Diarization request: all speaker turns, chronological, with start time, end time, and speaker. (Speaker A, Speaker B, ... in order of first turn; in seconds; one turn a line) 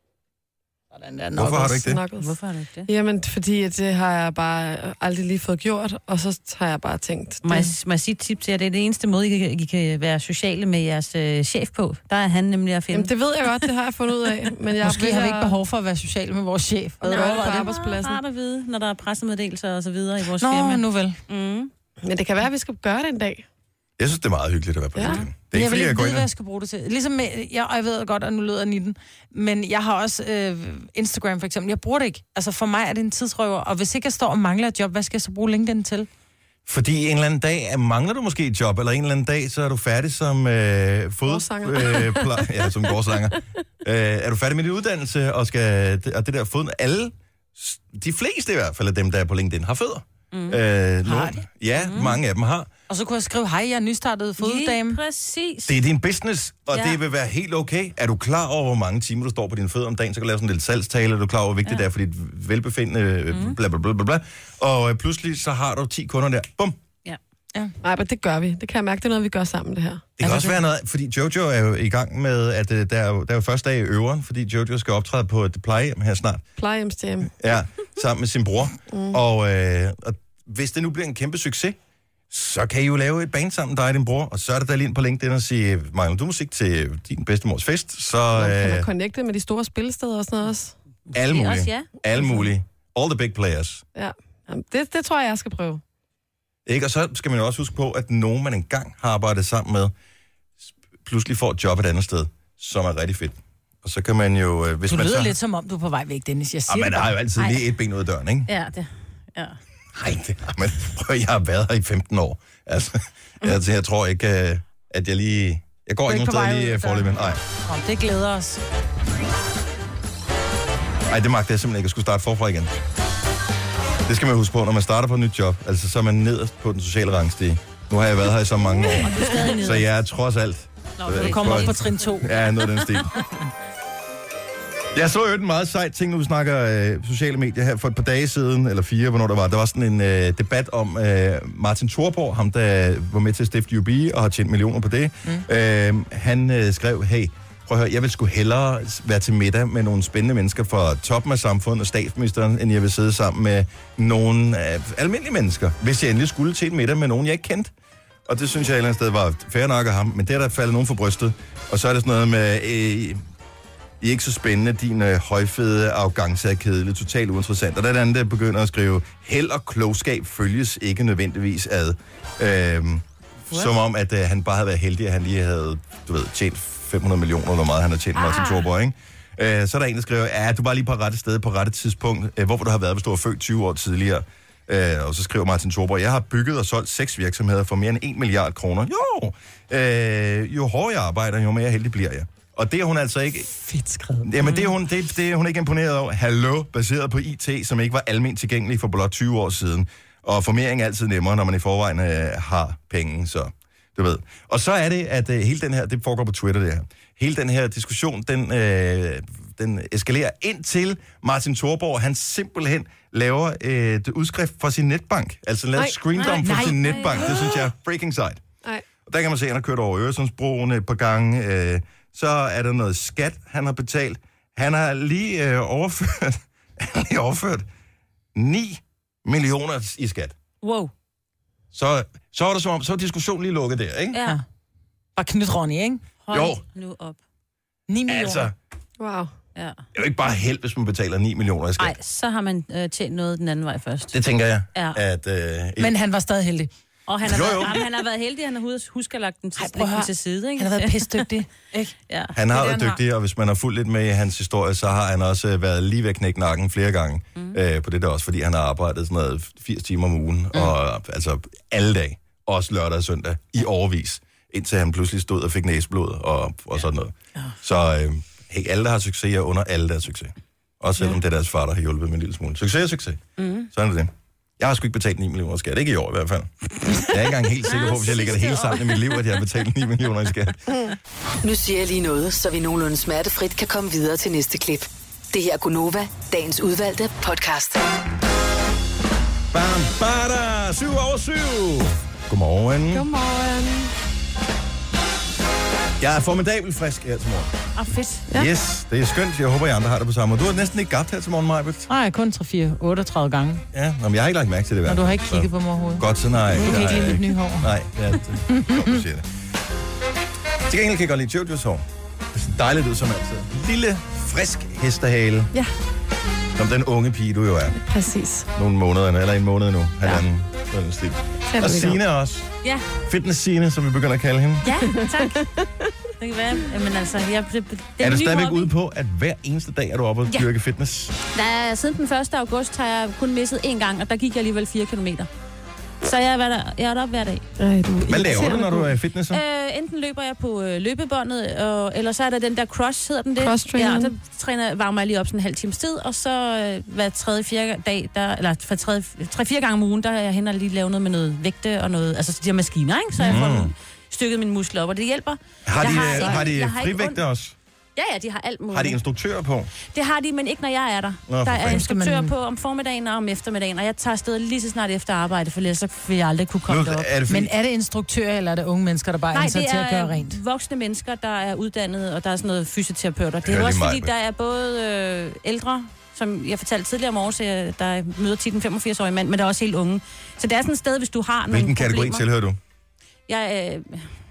Speaker A: 0.9-1.8
Speaker B: 1.3-2.0
Speaker C: 1.7-2.3
Speaker D: 2.2-2.9
Speaker C: 2.9-7.7
Speaker D: 7.4-13.6
Speaker C: 12.9-15.6
Speaker A: 14.8-17.5
Speaker D: 17.0-21.7
Speaker C: 17.0-18.2
Speaker A: 20.4-21.2
Speaker C: 22.0-23.4
Speaker B: 24.0-26.3
Speaker A: 25.5-36.1
Speaker B: 36.6-52.7
Speaker C: 41.2-43.1
Speaker D: 50.3-50.6
Speaker A: 51.0-51.4
Speaker D: 51.8-52.2
Speaker A: 52.9-55.0
Speaker D: 54.4-55.8
Speaker B: 55.7-66.8
Speaker D: 56.7-57.0
Speaker C: 67.8-70.0
Speaker B: 70.2-76.5
Speaker A: 70.2-70.6
Speaker C: 76.6-77.3
Speaker B: 77.4-81.8
Speaker C: 78.9-79.2
Speaker B: 82.3-88.9
Speaker C: 88.3-90.7
Speaker B: 91.1-93.8
Speaker D: 91.1-91.9
Speaker C: 93.9-95.8
Speaker B: 96.7-99.9
Speaker B: 101.0-105.3
Speaker A: 104.9-107.5
Speaker B: 106.7-108.5
Speaker D: 108.5-109.6
Speaker B: 109.9-117.4
Speaker A: 116.1-118.6
Speaker B: 121.1-122.7
Speaker B: 124.0-133.2
Speaker D: 128.8-129.9
Speaker D: 131.0-133.2
Speaker A: 131.1-132.3
Speaker B: 134.9-157.7
Speaker B: 158.3-163.2
Speaker B: 164.0-193.5
Speaker A: 193.7-194.2
Speaker B: 194.2-218.4
Speaker D: 216.1-217.5
Speaker A: 216.2-217.3
Speaker B: 219.1-227.7
Speaker B: 228.3-230.3
Speaker D: 230.6-230.9
Speaker B: 231.7-234.2
Speaker D: 234.1-234.4
Speaker A: 235.2-236.0
Speaker D: 236.2-237.2
Speaker B: 236.3-236.6
Speaker A: 237.9-238.5
Speaker B: 238.1-238.5
Speaker C: 239.0-239.3
Speaker D: 239.6-239.8
Speaker B: 239.9-241.9
Speaker D: 241.8-244.2
Speaker B: 244.1-245.9
Speaker D: 244.7-245.0
Speaker A: 245.8-246.7
Speaker D: 247.1-251.2
Speaker B: 247.2-247.8
Speaker A: 249.6-251.9
Speaker D: 252.1-252.3
Speaker B: 252.3-280.6
Speaker A: 252.5-253.0
Speaker D: 273.4-273.7
Speaker D: 277.6-279.1
Speaker E: 281.4-287.8
Speaker B: 289.5-293.1
Speaker C: 292.9-293.9
Speaker B: 296.0-297.5
Speaker D: 297.8-298.3
Speaker B: 298.3-301.9
Speaker A: 301.9-303.6
Speaker B: 303.7-309.2
Speaker A: 304.9-307.7
Speaker A: 308.5-309.0
Speaker B: 310.7-315.5
Speaker B: 316.6-317.8
Speaker C: 317.8-318.5
Speaker B: 318.5-322.5
Speaker C: 321.5-322.0
Speaker B: 323.1-324.7
Speaker D: 324.6-325.4
Speaker C: 324.7-325.7
Speaker D: 326.2-328.7
Speaker B: 328.0-331.2
Speaker D: 331.3-335.3
Speaker D: 336.0-337.4
Speaker C: 337.6-338.9
Speaker B: 338.0-339.4
Speaker D: 339.3-357.2
Speaker C: 343.4-344.1
Speaker B: 353.2-353.7
Speaker B: 355.6-357.6
Speaker D: 357.9-359.0
Speaker B: 358.7-359.7
Speaker D: 359.9-367.1
Speaker B: 361.3-361.8
Speaker A: 361.6-362.3
Speaker B: 366.7-367.5
Speaker A: 367.3-370.4
Speaker D: 369.3-382.2
Speaker B: 373.4-374.1
Speaker B: 381.5-382.6
Speaker D: 383.3-384.1